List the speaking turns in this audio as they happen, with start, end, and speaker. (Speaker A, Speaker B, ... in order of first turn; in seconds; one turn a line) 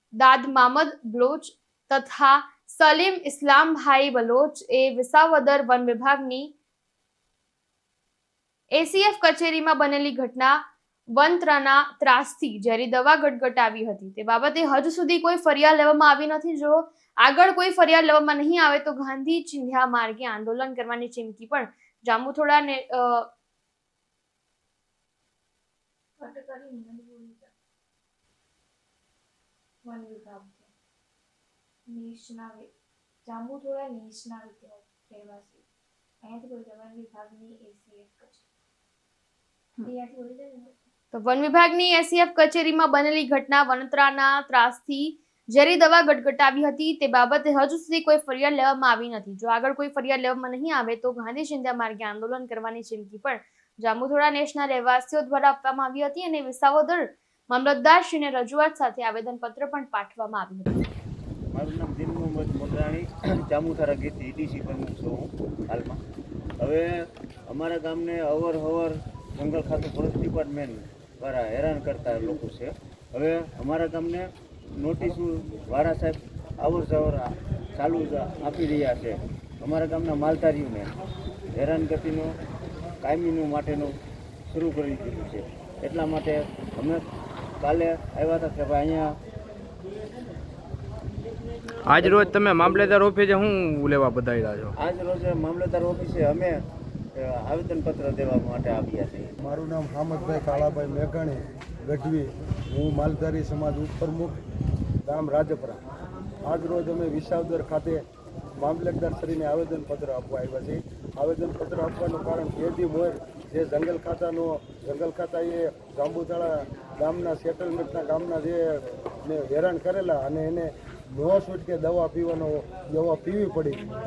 Speaker A: 0.2-6.5
Speaker A: 8.7-10.6
Speaker A: 11.1-23.3
Speaker B: 26.2-27.5
Speaker B: 29.8-30.7
Speaker B: 31.9-32.7
Speaker B: 33.2-35.6
Speaker B: 36.2-38.5
Speaker B: 39.8-40.8
Speaker A: 41.1-60.9
Speaker C: 61.5-66.0
Speaker C: 66.6-66.9
Speaker C: 67.5-74.3
Speaker C: 74.8-80.9
Speaker C: 81.5-82.3
Speaker C: 83.0-83.9
Speaker C: 84.5-87.0
Speaker C: 87.6-89.1
Speaker D: 91.9-94.7
Speaker C: 94.8-96.5
Speaker C: 97.2-99.3
Speaker E: 99.4-104.4
Speaker E: 105.0-105.8
Speaker E: 106.5-108.0
Speaker E: 108.6-123.8